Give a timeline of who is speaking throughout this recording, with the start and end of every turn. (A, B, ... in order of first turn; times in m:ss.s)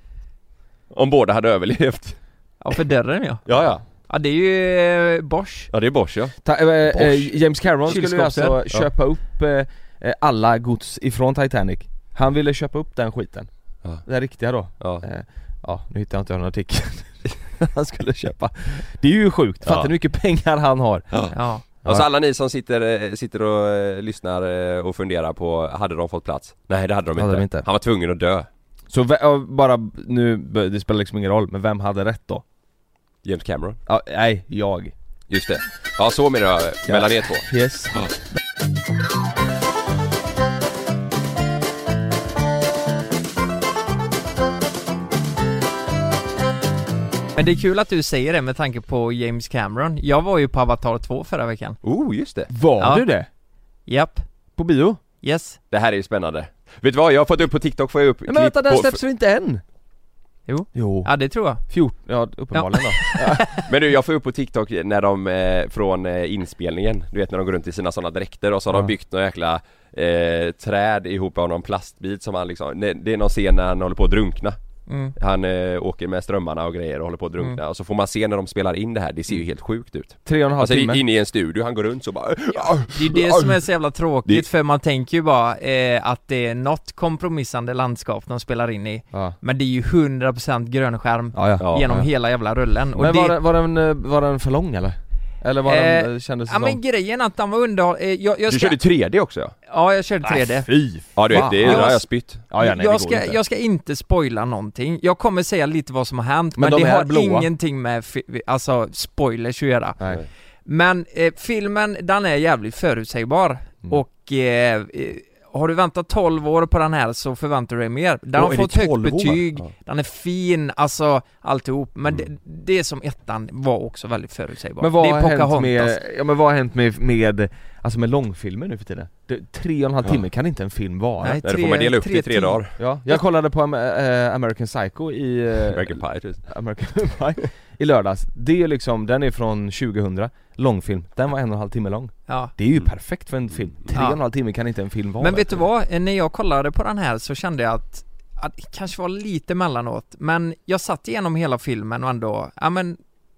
0:00.9-0:02.2 A
0:02.6-0:03.4 B
0:03.4-0:03.8 A
0:04.1-0:05.7 B
0:05.7-0:06.4 A
0:06.4-0:13.5 C
0:06.9-0:07.3 A
0:07.9-0:08.6 B
0:14.0-0:21.3 C
0:14.8-0:15.0 A
0:19.6-0:19.9 A
0:21.1-0:28.5 A
0:21.3-0:21.6 B
0:21.8-0:22.1 C
0:27.2-0:27.6 C
0:28.9-0:32.4 C
0:33.2-0:33.8 A
0:33.9-0:34.9 C
0:35.3-0:37.4 A
0:36.8-0:38.1 C
0:47.4-0:51.8 B
0:51.8-0:52.5 A
0:52.5-0:53.3 C
0:53.9-0:54.2 B
0:54.6-0:55.0 C
0:55.2-0:55.6 B
0:55.7-0:59.0 A
0:58.2-0:59.6 C
1:00.5-1:01.6 B
1:00.7-1:03.5 C
1:02.5-1:03.6 B
1:03.7-1:14.6 A
1:14.9-1:15.1 B
1:15.2-1:23.6 A
1:20.2-1:21.0 C
1:22.9-1:33.4 B
1:29.1-1:29.4 C
1:31.3-1:32.1 C
1:31.6-1:31.9 A
1:33.0-1:36.8 C
1:35.6-1:38.8 B
1:38.5-1:39.5 A
1:39.7-1:42.0 B
1:40.2-1:43.4 C
1:41.2-1:42.4 A
1:42.6-1:50.0 B
1:46.6-1:47.5 C
1:50.6-2:06.0 B
1:58.3-1:59.4 C
2:04.8-2:11.4 C
2:11.2-2:12.6 B
2:11.4-2:12.7 A
2:12.8-2:25.6 C
2:15.7-2:16.4 A
2:22.3-2:22.5 B
2:23.9-2:24.2 B
2:25.2-2:33.0 B